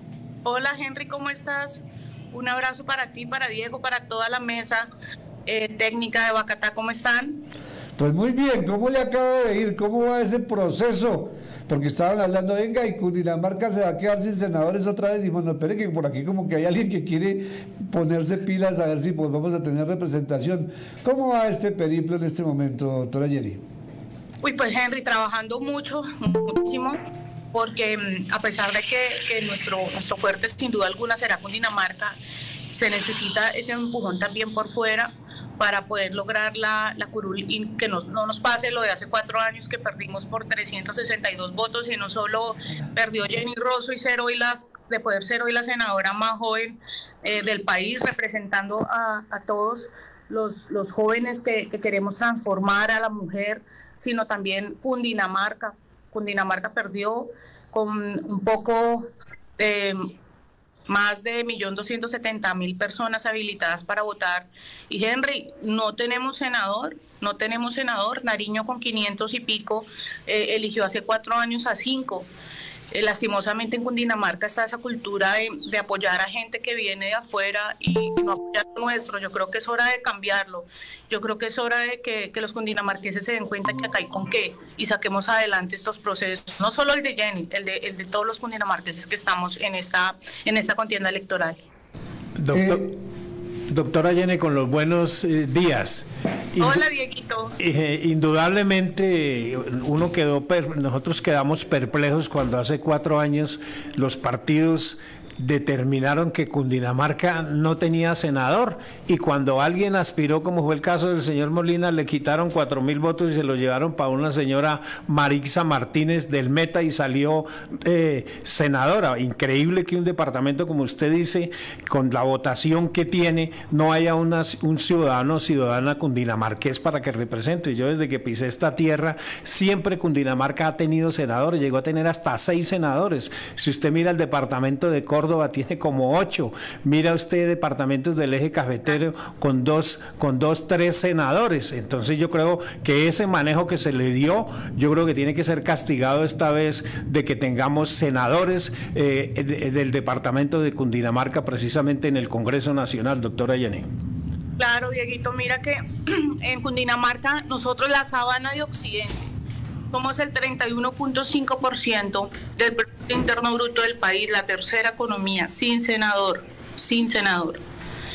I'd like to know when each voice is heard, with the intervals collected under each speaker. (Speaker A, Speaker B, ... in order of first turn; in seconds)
Speaker A: 0.4-4.9, 5.5-7.4, 24.4-27.0, 27.5-32.1, 32.7-60.1, 60.9-72.3, 72.9-91.6, 96.6-97.6, 154.6-159.2, 159.9-167.6
Speaker B: 8.0-23.6, 92.5-92.8
Speaker C: 92.4-93.0, 93.7-96.8, 97.6-153.9